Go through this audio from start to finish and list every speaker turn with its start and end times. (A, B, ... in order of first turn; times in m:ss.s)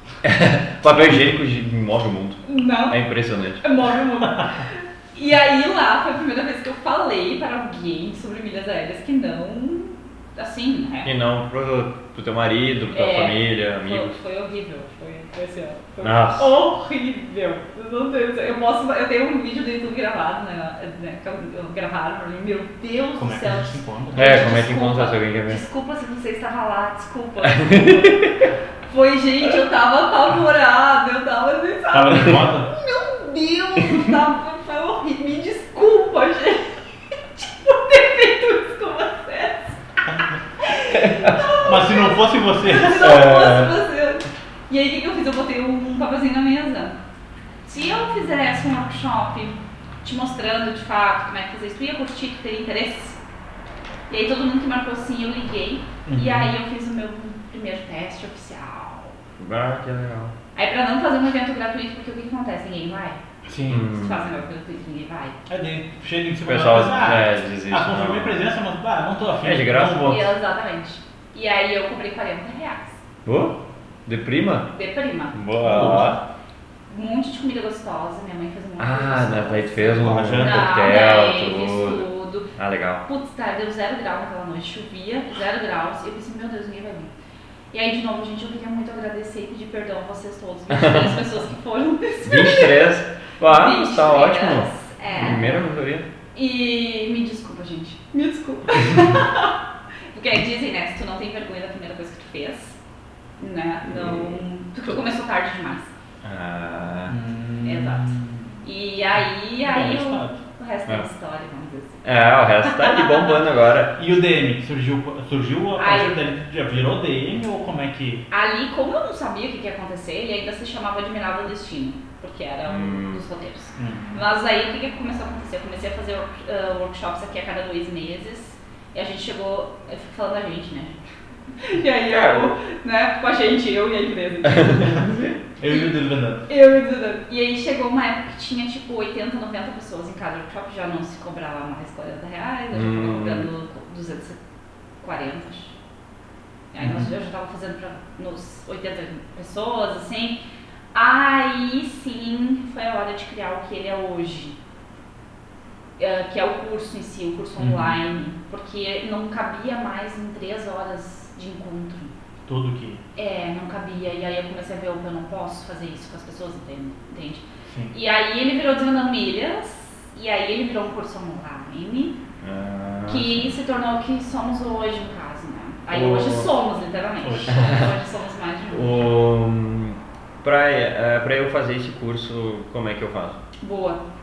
0:00.2-0:03.6 A
0:02.4-0:03.0 B
0:03.6-0:11.1 B
0:11.0-0:14.2 A
0:12.9-0:36.8 B
0:16.0-0:16.6 A
0:23.2-0:24.5 C
0:24.2-0:25.6 A
0:27.5-0:28.5 A
0:31.9-0:32.7 C
0:37.4-0:39.8 B
0:40.6-0:47.0 B
0:40.9-0:41.4 A
0:41.6-0:43.3 C
0:43.0-0:43.8 A
0:47.7-0:53.2 B
0:54.1-0:59.1 B
0:56.1-0:56.5 C
0:59.4-1:00.4 A
1:00.6-1:03.2 B
1:03.4-1:03.9 C
1:03.7-1:04.3 A
1:03.8-1:05.4 B
1:05.5-1:10.3 C
1:06.5-1:08.4 A
1:09.4-1:10.3 A
1:10.0-1:13.0 B
1:13.2-1:14.7 A
1:14.7-1:15.4 B
1:15.3-1:16.2 A
1:15.6-1:16.2 C
1:16.9-1:22.5 B
1:18.8-1:23.0 A
1:20.0-1:20.8 C
1:23.0-1:27.1 B
1:27.7-1:32.9 B
1:30.7-1:31.2 A
1:32.2-1:36.1 A
1:33.4-1:35.7 B
1:36.4-1:39.6 B
1:40.1-1:42.8 B
1:43.4-1:45.9 B
1:43.8-1:44.4 A
1:46.2-1:47.2 A
1:47.1-1:48.5 C
1:47.6-1:52.0 B
1:49.6-1:50.4 C
1:52.0-1:54.0 A
1:52.6-1:53.4 B
1:54.0-1:58.3 C
1:55.8-1:56.2 B
1:58.3-2:15.1 B
2:02.7-2:03.2 A
2:03.8-2:04.2 C
2:12.0-2:12.6 A
2:14.4-2:15.4 A
2:15.6-2:16.5 C
2:15.7-2:15.9 B
2:16.5-2:24.4 B
2:22.7-2:23.5 A
2:25.0-2:25.8 B
2:26.7-2:30.4 B
2:26.8-2:27.1 C
2:30.9-2:34.6 B
2:36.0-2:42.1 B
2:37.6-2:38.0 C
2:42.5-2:43.0 C
2:43.2-2:52.2 B
2:52.4-2:53.6 A
2:53.1-2:59.1 B
2:55.9-2:56.5 A
2:57.2-2:57.8 C
2:57.5-2:57.9 A
2:58.7-3:03.4 A
3:03.6-3:04.0 B